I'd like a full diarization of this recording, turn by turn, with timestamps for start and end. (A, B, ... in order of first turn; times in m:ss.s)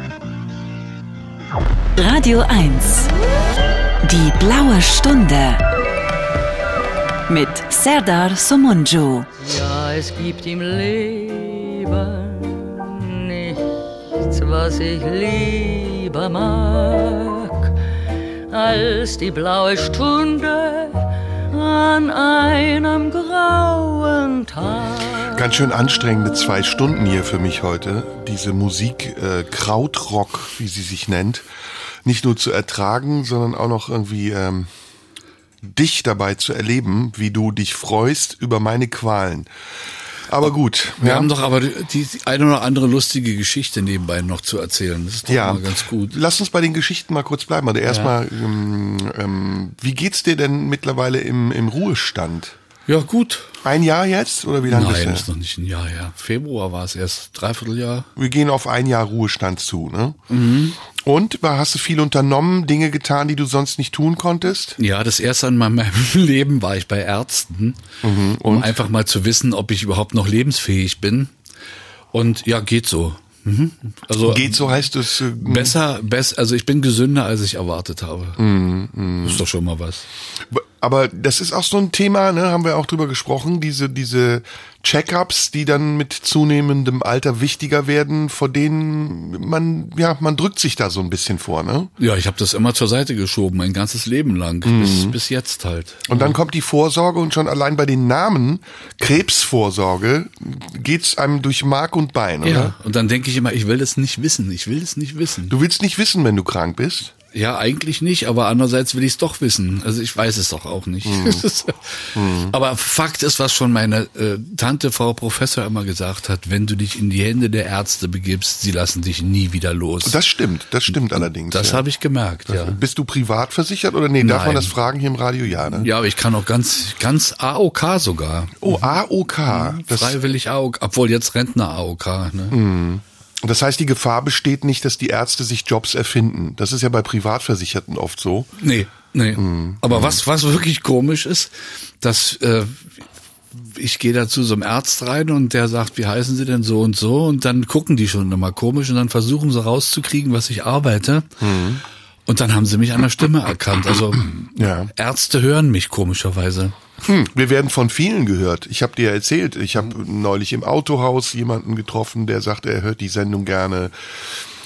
0:02.0-0:03.1 A
0:04.0-0:05.6 A
0:07.3-0:09.3 A
0:09.4-0:17.8 B
0:18.5-0:25.4 B
0:25.3-0:31.5 C
0:32.0-0:34.7 C
0:35.6-0:39.5 C
0:40.3-0:41.3 C
0:41.0-0:46.2 D
0:45.3-0:52.6 C
0:47.9-0:48.1 D
0:52.9-0:53.5 D
0:53.6-0:55.3 C
0:54.7-0:58.1 D
0:58.2-1:00.2 C
1:00.3-1:00.8 D
1:00.8-1:04.8 C
1:04.8-1:07.8 D
1:08.0-1:08.8 C
1:08.4-1:11.3 D
1:12.1-1:14.7 D
1:14.2-1:15.8 C
1:15.4-1:18.4 D
1:18.4-1:19.4 C
1:19.2-1:20.0 D
1:20.5-1:31.9 C
1:32.0-1:36.4 D
1:34.6-1:35.2 C
1:36.1-1:42.8 C
1:42.4-1:45.5 D
1:45.5-1:47.1 C
1:47.3-2:00.2 D
1:51.0-1:51.4 C
1:52.2-1:52.6 C
2:00.0-2:01.8 C
2:01.5-2:02.8 D
2:02.5-2:05.9 C
2:04.2-2:04.8 D
2:05.8-2:08.9 D
2:08.6-2:10.2 C
2:09.5-2:12.6 D
2:12.5-2:18.5 C
2:18.6-2:22.9 D
2:19.4-2:20.2 C
2:23.5-2:31.4 D
2:31.4-2:31.8 C
2:32.3-2:36.8 D
2:34.6-2:34.9 C
2:37.0-2:44.0 C